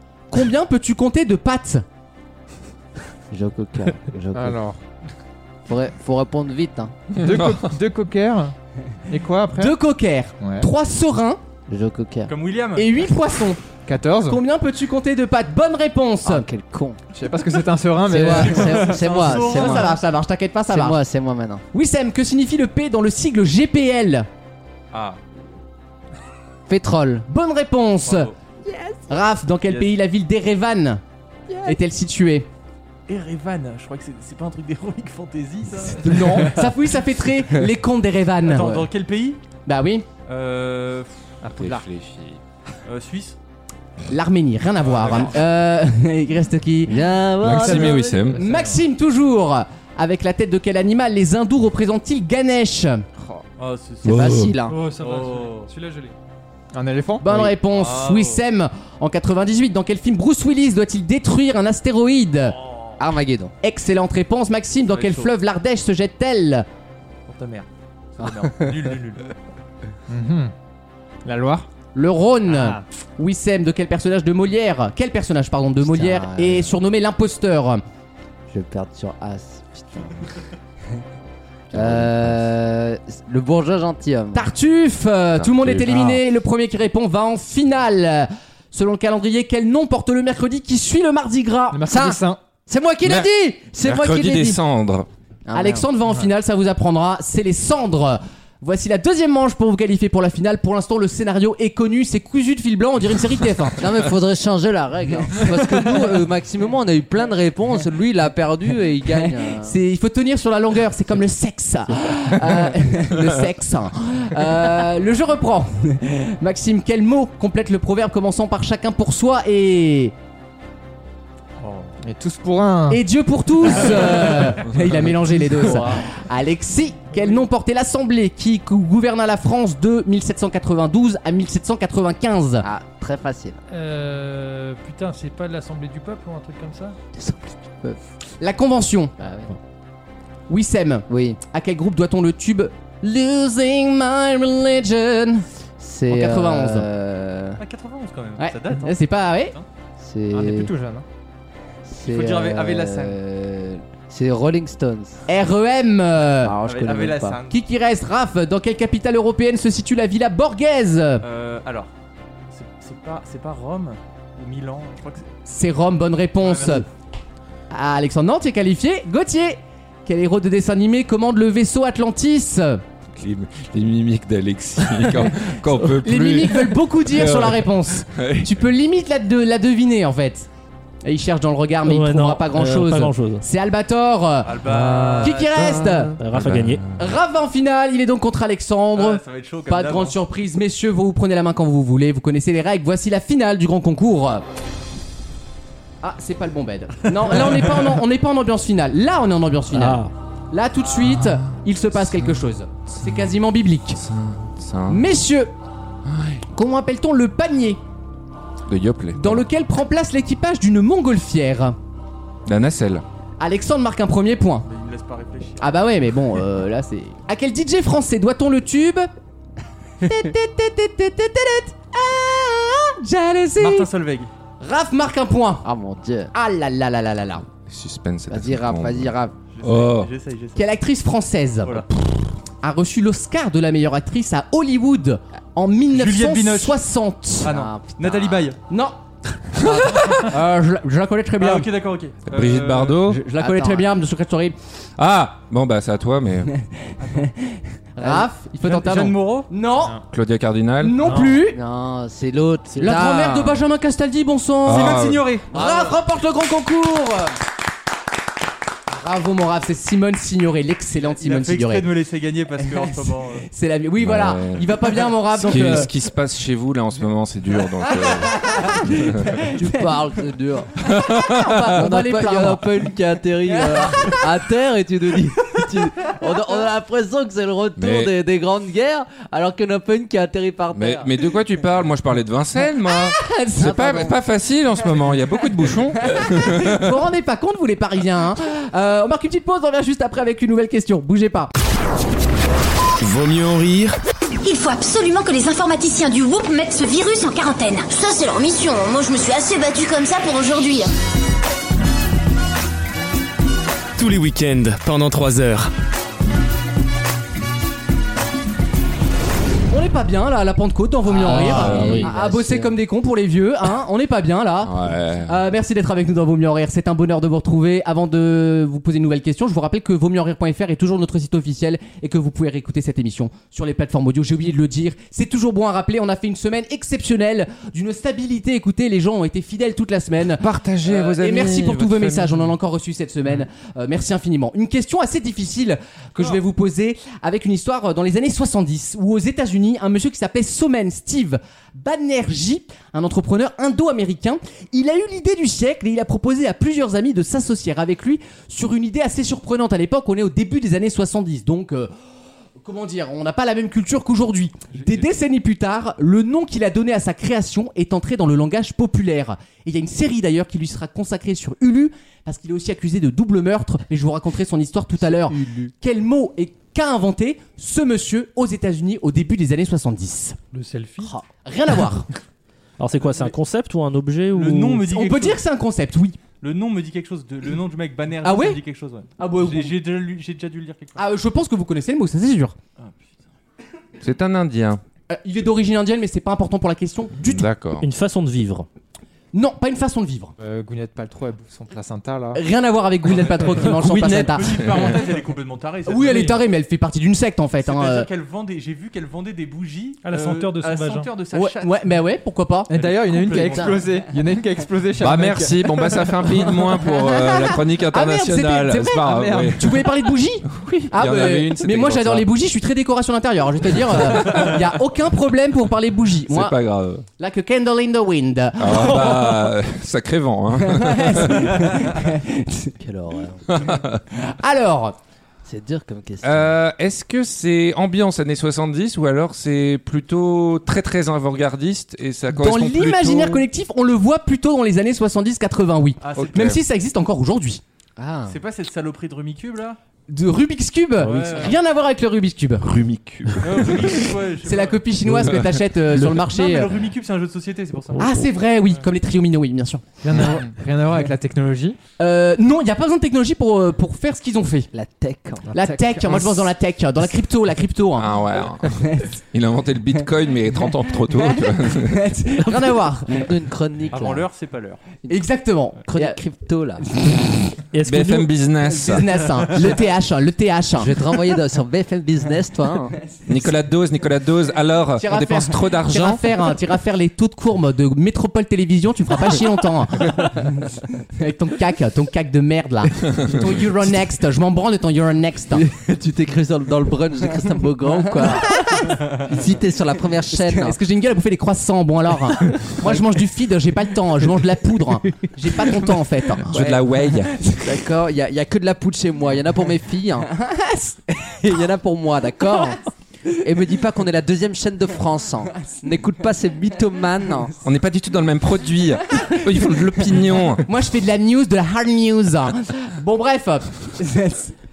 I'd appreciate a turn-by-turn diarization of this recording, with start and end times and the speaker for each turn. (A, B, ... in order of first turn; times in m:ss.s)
0:00.3-0:01.8 A
0:03.3-0:04.6 B
0:04.3-0:04.8 C
0:05.7-0:06.9 B
0:07.2-0:07.7 D
0:07.2-0:08.5 C
0:09.1-0:09.8 C
0:09.5-0:11.4 A
0:10.4-0:10.7 C
0:11.7-0:12.3 B
0:12.3-0:12.9 E
0:12.8-0:13.6 A
0:13.8-0:14.4 C
0:14.2-0:16.4 A
0:16.2-0:17.0 B
0:17.1-0:19.0 C
0:18.1-0:20.0 B
0:18.5-0:20.0 E
0:19.2-0:21.0 A
0:20.7-0:21.6 B
0:21.7-0:24.3 A
0:24.9-0:25.2 E
0:26.7-0:27.2 B
0:27.3-0:28.3 A
0:28.0-0:28.3 E
0:28.6-0:29.2 B
0:29.1-0:31.0 A
0:29.6-0:29.9 E
0:31.5-0:31.8 B
0:31.6-0:32.5 A
0:33.1-0:36.7 E
0:36.0-0:38.8 A
0:38.4-0:39.4 E
0:39.6-0:40.0 A
0:40.3-0:41.2 E
0:41.4-0:41.8 C
0:41.4-0:42.4 D
0:42.8-0:43.4 E
0:44.1-0:47.0 A
0:44.8-0:45.4 E
0:46.8-0:48.3 B
0:47.4-0:48.4 D
0:48.3-0:53.0 A
0:53.6-0:54.4 E
0:54.0-0:54.8 B
0:54.0-0:54.6 D
0:54.6-0:56.1 F
0:55.0-0:55.7 E
0:56.7-0:57.3 C
0:57.2-1:02.6 A
0:57.7-0:58.4 E
1:02.6-1:02.9 E
1:03.0-1:03.5 B
1:03.6-1:06.7 A
1:04.8-1:05.3 E
1:07.3-1:09.3 E
1:08.2-1:08.9 B
1:10.1-1:10.5 C
1:11.2-1:11.7 C
1:11.9-1:17.8 A
1:12.5-1:12.8 C
1:15.8-1:16.7 B
1:18.5-1:20.3 B
1:21.7-1:22.4 D
1:21.7-1:24.5 B
1:24.3-1:31.9 A
1:25.3-1:26.1 D
1:31.7-1:32.4 C
1:31.9-1:34.6 B
1:33.0-1:35.1 D
1:35.4-1:35.9 B
1:35.5-1:43.9 A
1:43.8-1:49.8 B
1:49.1-2:00.1 A
2:01.6-2:01.9 E
2:02.0-2:03.0 C
2:02.9-2:12.6 A
2:03.6-2:04.6 B
2:05.5-2:06.0 B
2:12.6-2:13.6 B
2:13.7-2:17.0 F
2:17.1-2:18.0 B
2:18.4-2:19.1 A
2:19.2-2:19.5 B
2:20.5-2:25.4 A
2:21.1-2:21.4 B
2:25.8-2:27.6 B
2:26.1-2:26.8 A
2:27.6-2:29.6 E
2:28.4-2:29.5 A
2:30.0-2:30.7 B
2:30.3-2:31.0 C
2:31.9-2:35.2 B
2:32.0-2:33.2 E
2:35.3-2:36.5 A
2:36.4-2:37.4 B
2:36.6-2:37.6 E
2:37.5-2:41.2 A
2:41.2-2:41.9 E
2:42.5-2:45.2 E
2:45.4-2:46.8 A
2:46.4-2:46.8 E
2:47.7-2:52.8 A
2:53.1-2:58.6 D
2:56.0-3:00.5 A
3:01.0-3:04.6 A
3:01.8-3:03.4 G
3:04.4-3:05.8 E
3:04.7-3:05.3 G
3:05.2-3:06.2 A
3:05.9-3:07.0 D
3:06.2-3:06.8 G
3:07.0-3:14.4 A
3:08.9-3:10.2 E
3:16.0-3:24.0 A
3:19.7-3:20.1 G
3:21.0-3:23.3 D
3:23.9-3:25.1 D
3:24.9-3:25.5 A
3:26.0-3:26.4 D
3:26.5-3:27.8 A
3:28.7-3:29.4 D
3:29.1-3:31.8 A
3:32.4-3:33.0 D
3:33.4-3:34.7 A
3:34.6-3:35.8 E
3:35.6-3:39.1 A
3:40.0-3:43.9 A
3:43.6-3:44.3 E
3:44.6-3:45.6 A
3:45.6-3:46.3 B
3:46.3-3:47.4 A
3:47.6-3:50.1 D
3:48.3-3:49.3 B
3:49.5-3:50.7 E
3:50.6-3:52.1 A
3:52.6-3:57.5 A
3:55.9-3:56.8 E
3:57.4-3:58.6 E
3:57.4-3:58.5 B
3:58.7-3:59.0 A
3:59.5-4:01.7 A
3:59.6-4:00.3 D
4:01.4-4:03.1 E
4:02.3-4:03.2 D
4:03.0-4:04.6 A
4:03.4-4:03.9 B
4:05.0-4:06.5 D
4:07.1-4:10.0 A
4:08.0-4:08.3 B
4:08.6-4:09.5 E
4:10.1-4:11.1 D
4:10.8-4:11.6 A
4:11.0-4:11.4 F
4:11.2-4:13.6 B
4:12.8-4:17.3 A
4:14.6-4:15.2 D
4:14.6-4:15.8 E
4:15.5-4:15.9 B
4:18.9-4:21.9 A
4:21.0-4:23.5 E
4:23.5-4:25.9 A
4:24.0-4:29.4 D
4:27.9-4:29.9 A
4:29.5-4:30.8 B
4:30.8-4:31.8 D
4:31.0-4:32.7 A
4:31.7-4:41.1 B
4:33.5-4:34.2 A
4:37.8-4:38.1 D
4:40.7-4:46.9 D
4:43.1-4:44.1 A
4:46.0-4:51.5 A
4:53.0-4:54.0 H
4:54.4-5:00.9 I
5:04.0-5:05.7 H
5:09.7-5:51.9 A
5:11.0-5:12.7 B
5:11.2-5:12.1 G
5:11.3-5:12.1 D
5:14.6-5:15.4 D
5:30.4-5:32.5 D
5:52.6-6:10.4 A
5:54.7-5:55.1 E
6:05.1-6:05.7 B
6:10.5-6:11.1 F
6:11.4-6:12.1 A
6:12.8-6:14.8 G
6:14.3-6:15.4 E
6:14.8-6:16.2 A
6:16.4-6:21.0 E
6:18.2-6:18.6 A
6:19.2-6:19.8 A
6:21.0-6:22.5 A
6:24.0-6:24.8 D
6:25.1-6:27.5 A
6:27.2-6:27.8 D
6:27.8-6:28.7 G
6:29.3-6:30.3 A
6:30.4-6:32.4 C
6:32.3-6:34.9 A
6:33.1-6:36.3 E
6:35.9-6:38.1 A
6:36.0-6:36.4 F
6:37.6-6:41.7 E
6:40.0-6:41.1 F
6:41.3-6:42.7 A
6:42.7-6:45.9 C
6:42.7-6:43.9 E
6:45.0-6:49.8 D
6:46.7-6:56.6 A
6:49.0-6:49.6 C
6:50.5-6:52.3 D
6:54.1-6:54.5 D
6:56.3-6:57.0 D
6:57.2-6:59.5 A
6:58.6-7:01.7 D
7:00.6-7:02.7 A
7:02.8-7:03.5 B
7:03.5-7:04.0 D
7:04.1-7:05.0 A
7:05.4-7:06.5 B
7:06.2-7:13.4 D
7:12.3-7:17.6 A
7:16.0-7:16.6 E
7:16.2-7:16.6 D
7:18.0-7:18.4 B
7:18.3-7:19.8 E
7:20.1-7:22.7 A
7:21.0-7:21.6 E
7:21.0-7:21.5 G
7:22.6-7:24.0 D
7:23.4-7:25.0 E
7:24.4-7:26.8 A
7:26.0-7:28.1 E
7:28.0-7:29.8 A
7:30.0-7:31.8 C
7:32.0-7:34.7 A
7:34.7-7:35.5 B
7:35.5-7:36.5 C
7:35.5-7:38.2 A
7:38.0-7:42.1 D
7:38.8-7:39.1 A
7:41.3-7:43.3 A
7:43.1-7:44.2 B
7:43.9-7:44.8 E
7:45.1-7:46.2 A
7:45.8-7:46.8 B
7:46.9-7:47.3 A
7:47.7-7:48.3 G
7:47.8-7:49.3 D
7:48.7-7:51.0 A
7:50.8-7:52.9 B
7:53.3-7:56.3 D
7:55.0-8:05.6 A
8:05.5-8:08.6 B
8:08.5-8:09.2 A
8:09.2-8:10.8 B
8:10.3-8:16.7 A
8:16.5-8:17.4 D
8:16.5-8:16.8 B
8:17.3-8:17.6 A
8:17.6-8:20.3 B
8:20.3-8:21.1 A
8:21.4-8:22.8 B
8:23.3-8:27.5 B
8:27.6-8:30.6 D
8:29.7-8:34.5 A